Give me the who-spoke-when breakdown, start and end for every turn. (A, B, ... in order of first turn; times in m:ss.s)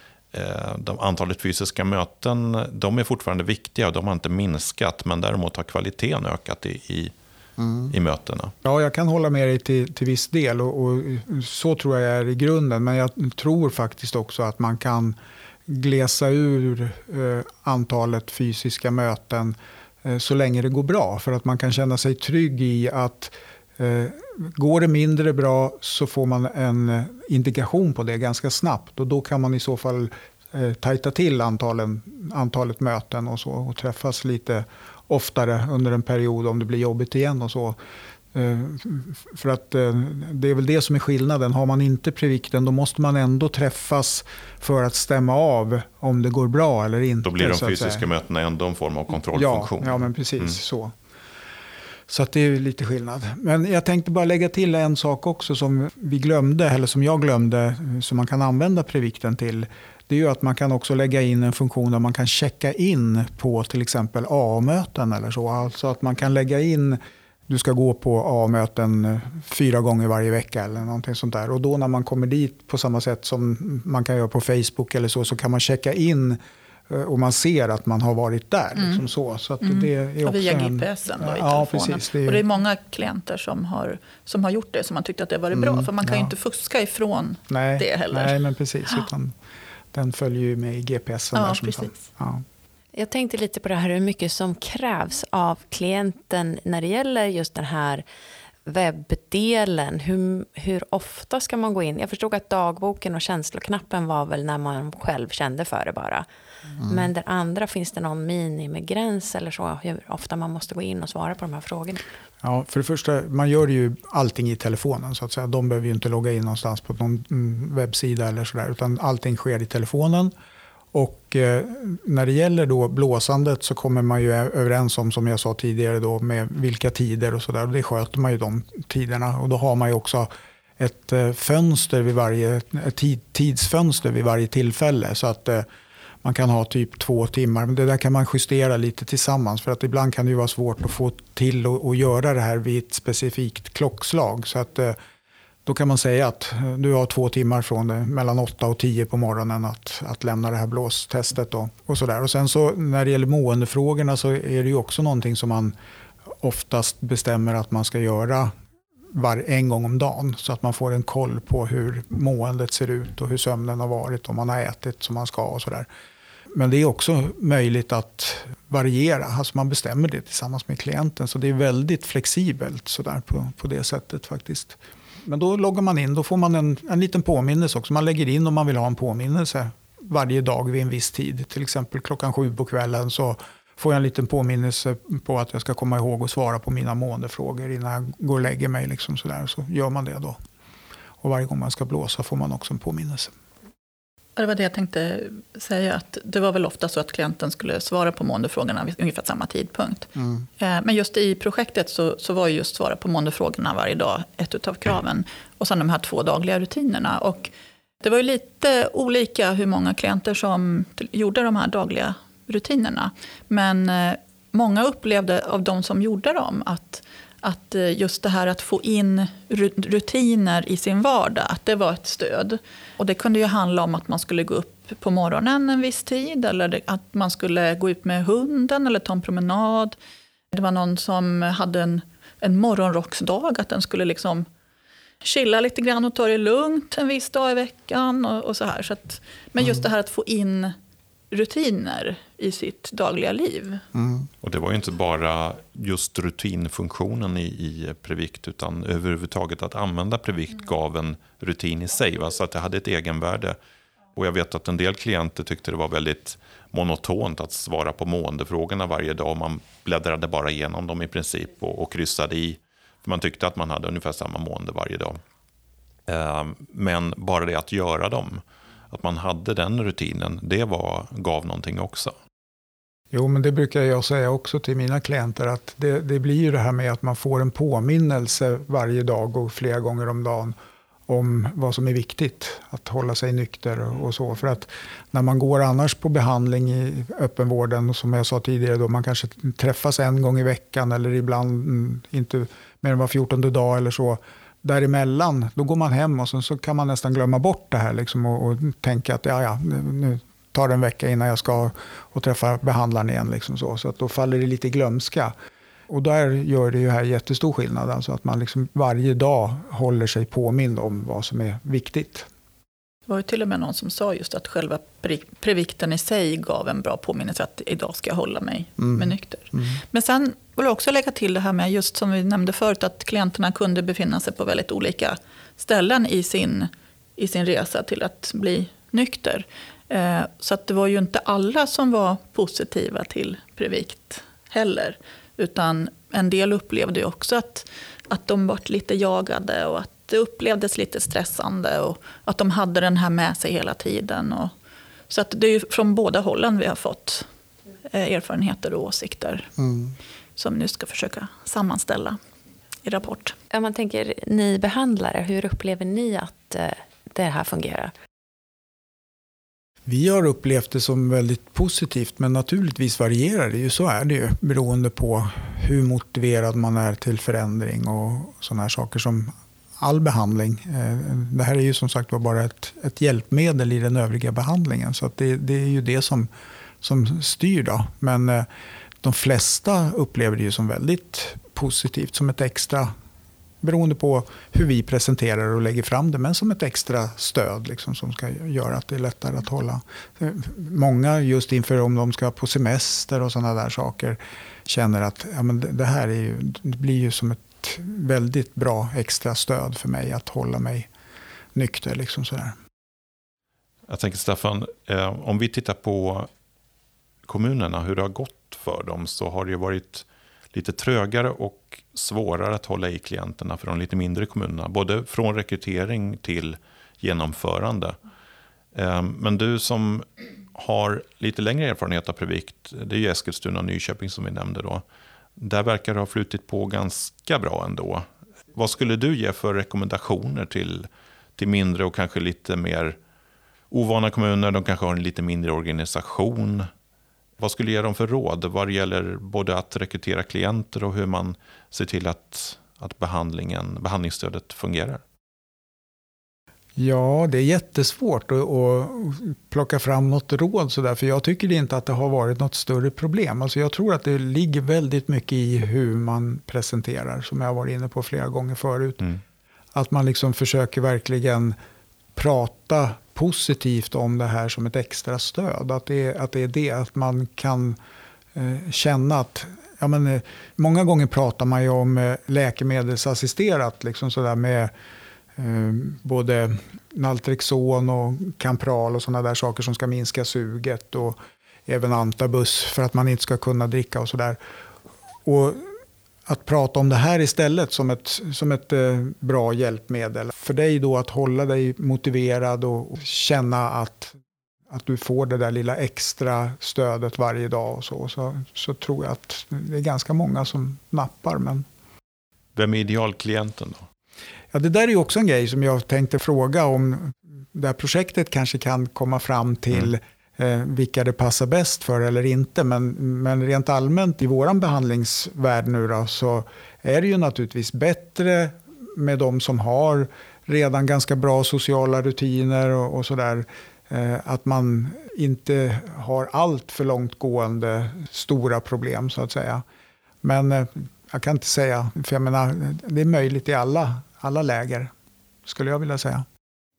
0:00.3-0:07.1 A
0:07.6-0:07.9 B
0:07.9-0:08.5 A
0:08.6-0:37.8 B
0:38.3-0:48.0 B
0:47.2-0:50.5 A
0:49.3-0:50.9 B
0:52.1-1:22.4 B
1:18.8-1:19.0 C
1:19.6-1:28.4 C
1:25.5-1:26.3 B
1:27.5-1:29.3 B
1:29.9-1:32.4 B
1:31.3-1:32.0 C
1:32.9-1:38.0 D
1:38.6-1:46.2 D
1:46.8-1:47.0 B
1:46.8-1:52.0 D
1:52.4-2:00.3 B
2:00.9-2:15.6 B
2:16.2-2:25.0 B
2:25.6-2:35.7 B
2:36.4-2:38.5 B
2:39.1-2:45.9 B
2:46.5-3:10.4 B
3:11.2-3:13.3 B
3:14.4-3:50.0 C
3:20.2-3:20.4 B
3:50.5-3:54.5 C
3:55.2-4:00.7 C
4:01.3-4:03.8 C
4:03.9-4:04.3 B
4:04.4-4:13.6 A
4:14.1-4:25.2 A
4:26.1-4:32.1 A
4:33.1-4:40.5 B
4:41.1-5:05.3 B
5:05.9-5:12.3 B
5:13.1-5:44.5 C
5:18.8-5:19.8 B
5:45.1-5:47.2 C
5:47.9-5:49.5 C
5:49.6-5:49.9 B
5:50.4-5:52.2 C
5:52.8-5:53.4 C
5:53.5-5:57.9 D
5:59.8-6:16.3 B
6:16.8-6:18.5 B
6:19.0-6:22.9 B
6:23.6-6:40.9 B
6:41.5-6:42.6 B
6:43.9-6:46.3 A
6:47.2-6:58.0 A
6:58.7-7:04.8 A
7:05.4-7:13.0 A
7:13.7-7:16.7 A
7:17.4-7:25.0 A
7:26.8-7:39.1 B
7:39.7-7:41.6 B
7:42.1-7:47.8 B
7:48.3-7:54.7 B
7:55.4-8:04.4 B
8:05.2-8:05.7 B
8:06.3-8:14.2 B
8:14.7-8:21.6 B
8:22.6-8:23.9 A
8:24.5-8:49.6 B
8:50.2-8:54.9 B
8:55.4-8:56.2 B